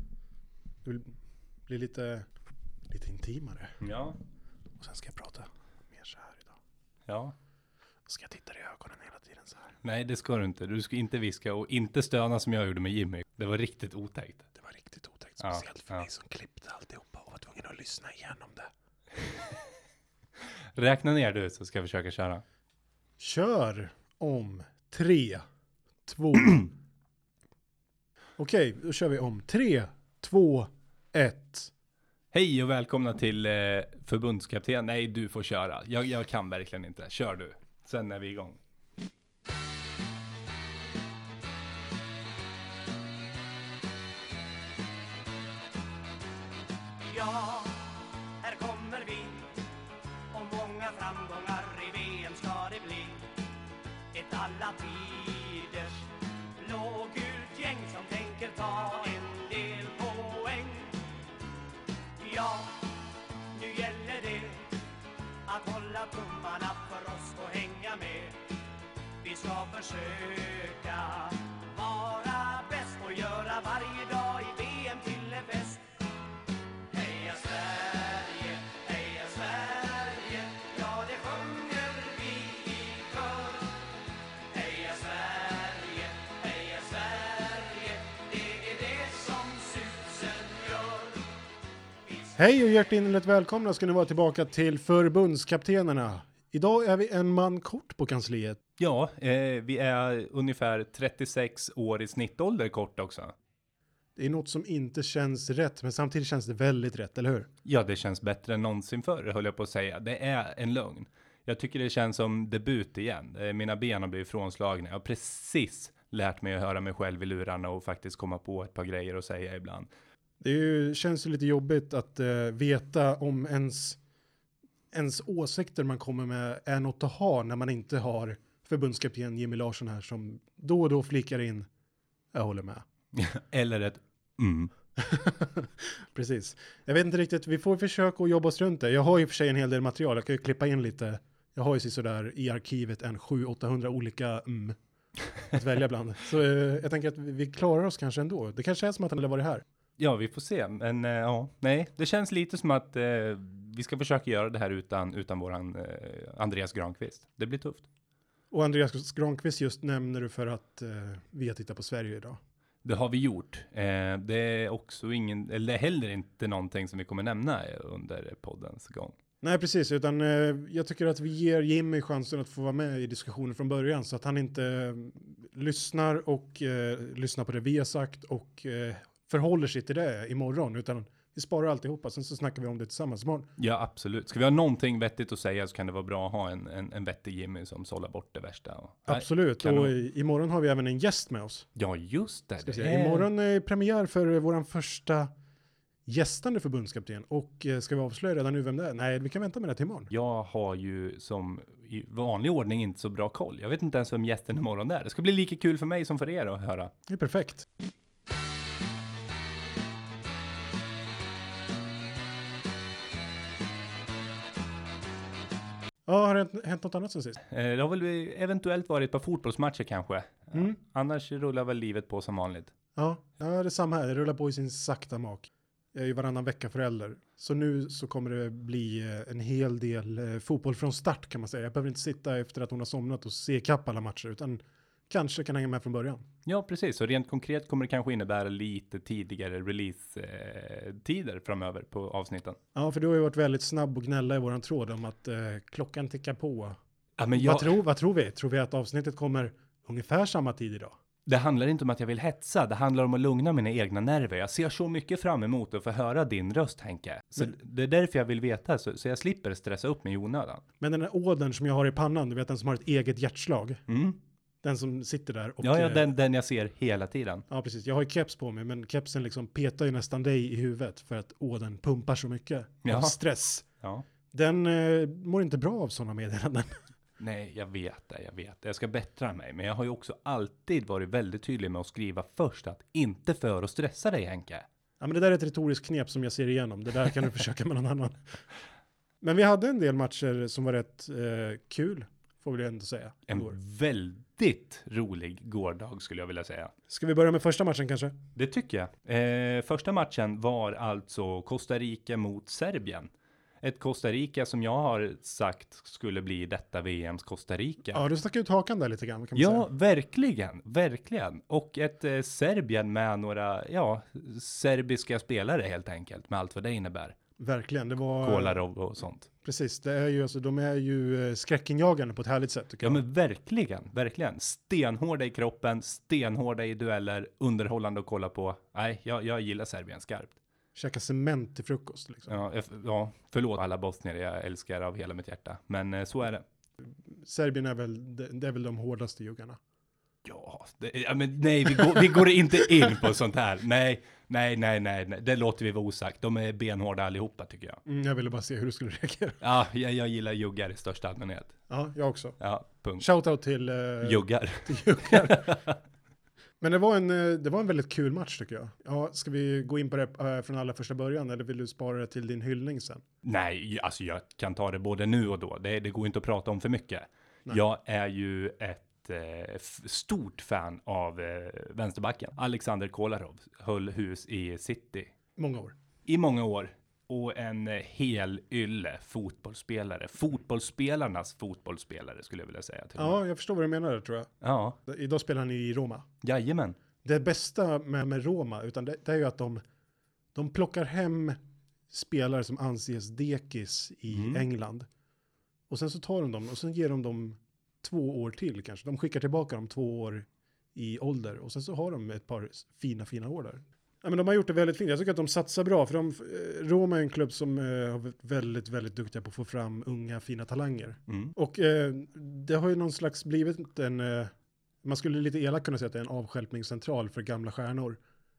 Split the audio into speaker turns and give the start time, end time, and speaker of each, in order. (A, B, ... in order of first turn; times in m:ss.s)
0:00.8-0:01.1 A
0:01.7-0:02.3 A
0:02.9-0:03.8 A
0:03.8-0:04.2 B
0:04.8-0:06.6 A
0:07.1-0:07.3 B
0:08.1-0:09.7 A
0:09.8-0:14.4 B
0:14.6-0:18.7 A
0:15.4-0:16.0 B
0:19.2-0:19.4 B
0:20.4-0:22.4 B
0:23.2-0:25.4 A
0:26.0-0:26.7 A
0:28.4-0:31.7 A
0:32.3-0:38.6 B
0:47.0-0:49.6 C
0:50.3-0:53.3 C
0:54.1-1:01.0 C
1:02.2-1:02.9 C
1:03.5-1:04.8 C
1:05.4-1:08.4 C
1:09.2-1:15.9 C
1:16.9-1:23.8 C
1:24.5-1:31.2 C
1:32.4-1:38.6 A
1:38.8-1:43.3 B
1:44.2-1:47.5 A
1:47.6-1:59.9 B
2:00.4-2:04.0 A
2:04.9-2:11.7 A
2:12.3-2:12.8 A
2:13.1-2:14.7 B
2:15.0-2:24.8 A
2:25.4-2:29.6 A
2:30.0-2:37.9 B
2:38.5-2:42.4 A
2:42.8-2:49.2 B
2:49.4-3:03.5 A
3:03.6-3:09.9 B
3:09.1-3:11.7 A
3:11.8-3:13.3 B
3:12.6-3:15.3 A
3:16.0-3:20.1 A
3:20.1-3:26.9 B
3:27.1-3:27.6 A
3:36.1-3:37.4 A
3:37.5-3:42.7 B
3:43.0-3:56.2 A
3:56.4-4:02.6 B
4:02.7-4:06.8 A
4:07.2-4:07.8 B
4:07.3-4:11.0 A
4:11.2-4:20.6 B
4:20.8-4:23.8 A
4:23.9-4:24.2 B
4:24.6-4:26.1 A
4:25.6-4:27.4 B
4:27.5-4:33.6 A
4:32.8-4:33.1 B
4:34.3-4:36.8 A
4:37.2-4:44.6 B
4:45.0-4:48.4 A
4:49.2-4:53.6 A
4:53.3-4:56.7 B
4:56.9-4:58.2 A
4:58.4-5:08.0 B
5:07.9-5:09.6 A
5:09.3-5:17.2 B
5:17.4-5:18.6 A
5:18.2-5:19.3 B
5:19.4-5:23.0 A
5:22.8-5:30.3 B
5:30.7-5:32.4 A
5:32.3-5:36.4 B
5:37.1-5:39.6 A
5:40.2-5:47.8 B
5:47.8-5:49.4 A
5:49.4-5:51.5 B
5:51.7-5:52.4 A
5:52.4-5:53.0 B
5:53.0-5:55.6 A
5:54.0-5:55.8 B
5:56.6-6:03.0 A
6:03.2-6:15.1 B
6:15.4-6:15.7 A
6:16.0-6:23.2 B
6:23.0-6:24.3 A
6:24.4-6:24.8 B
6:24.8-6:26.1 A
6:26.2-6:26.8 B
6:27.0-6:29.6 A
6:30.3-6:31.4 A
6:31.9-6:34.9 A
6:34.1-6:34.4 B
6:35.7-6:54.3 A
6:51.1-6:51.3 B
6:54.8-6:58.0 A